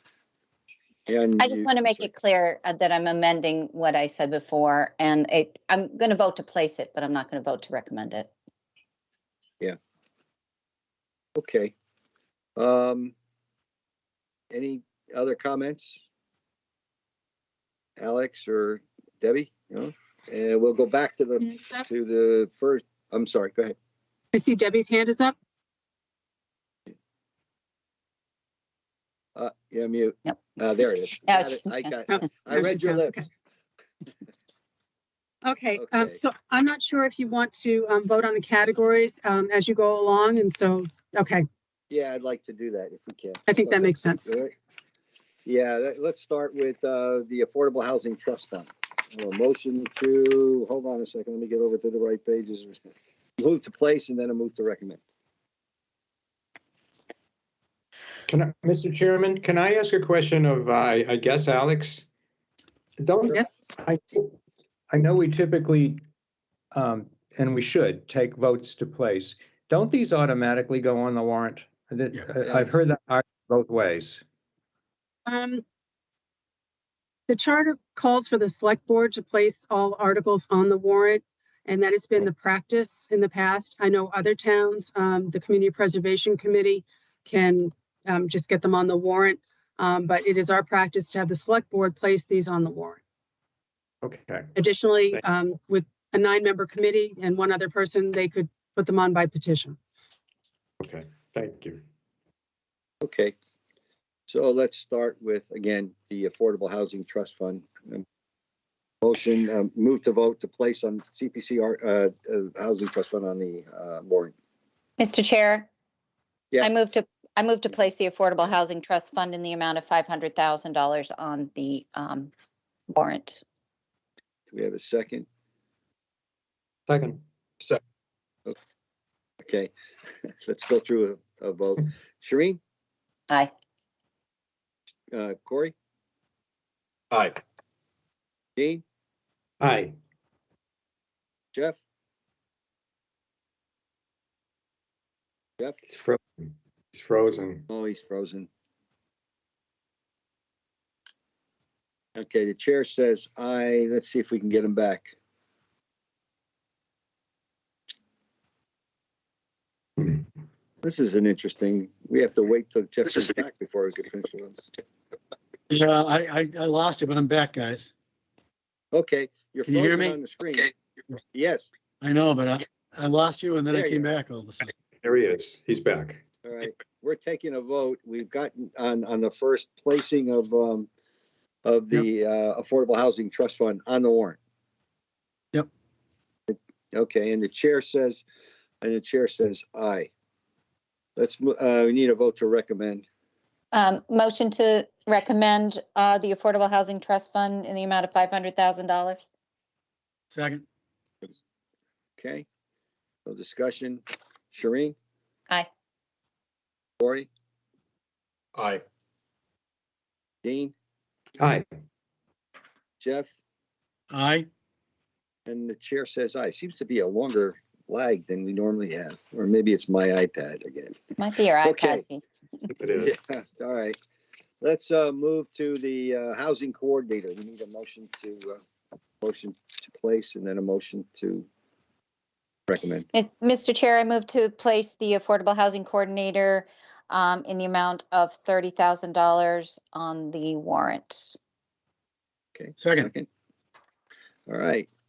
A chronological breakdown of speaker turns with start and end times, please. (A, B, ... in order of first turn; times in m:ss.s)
0:01.1-0:02.1 A
0:01.4-0:08.3 B
0:11.4-0:11.7 A
0:12.6-0:13.1 A
0:14.5-0:16.0 A
0:18.0-0:23.8 A
0:21.5-0:21.8 C
0:24.3-0:25.4 C
0:29.4-0:33.2 A
0:31.2-0:31.9 B
0:32.1-0:33.3 C
0:35.4-0:41.5 C
0:35.7-0:36.2 A
0:41.9-0:44.5 A
0:43.5-0:44.3 C
0:45.5-0:52.8 A
0:53.4-0:55.0 A
0:58.3-1:02.0 D
1:03.0-1:04.3 D
1:03.3-1:03.6 C
1:04.9-1:06.0 D
1:06.7-1:14.2 D
1:12.4-1:12.7 A
1:15.3-1:15.6 C
1:17.3-1:33.0 C
1:34.0-1:34.5 D
1:34.6-1:39.8 C
1:40.8-1:41.8 D
1:43.0-1:43.3 A
1:44.3-1:48.0 A
1:49.0-1:54.3 A
1:55.0-1:55.7 B
1:56.6-2:02.3 B
2:02.9-2:03.4 B
2:04.5-2:05.3 A
2:06.9-2:07.2 D
2:09.4-2:09.7 A
2:10.4-2:12.6 A
2:15.1-2:15.8 A
2:18.6-2:18.8 A
2:19.6-2:20.0 D
2:21.5-2:21.8 A
2:25.9-2:27.6 D
2:27.7-2:28.5 A
2:32.2-2:35.2 A
2:40.8-2:44.7 A
2:45.7-2:47.9 E
2:48.9-2:50.7 A
2:49.7-2:50.2 E
2:51.3-2:51.7 A
2:52.0-2:54.7 E
2:53.7-2:54.1 A
2:55.0-2:56.2 D
2:56.4-3:00.9 A
3:01.6-3:04.4 A
3:06.5-3:08.2 A
3:08.8-3:10.1 A
3:11.2-3:13.1 A
3:13.7-3:19.2 B
3:20.3-3:20.6 E
3:22.2-3:22.4 A
3:23.3-3:25.0 A
3:27.0-3:27.3 A
3:30.4-3:30.7 A
3:31.4-3:31.6 D
3:33.0-3:33.3 A
3:34.1-3:34.5 E
3:35.5-3:41.0 A
3:41.2-3:42.2 B
3:41.6-3:42.0 A
3:42.7-3:43.1 D
3:43.0-3:44.0 A
3:44.6-3:48.6 A
3:49.2-3:51.5 A
3:52.7-3:53.1 A
3:53.1-4:01.4 B
4:02.6-4:03.3 A
4:02.8-4:03.1 E
4:04.5-4:04.9 A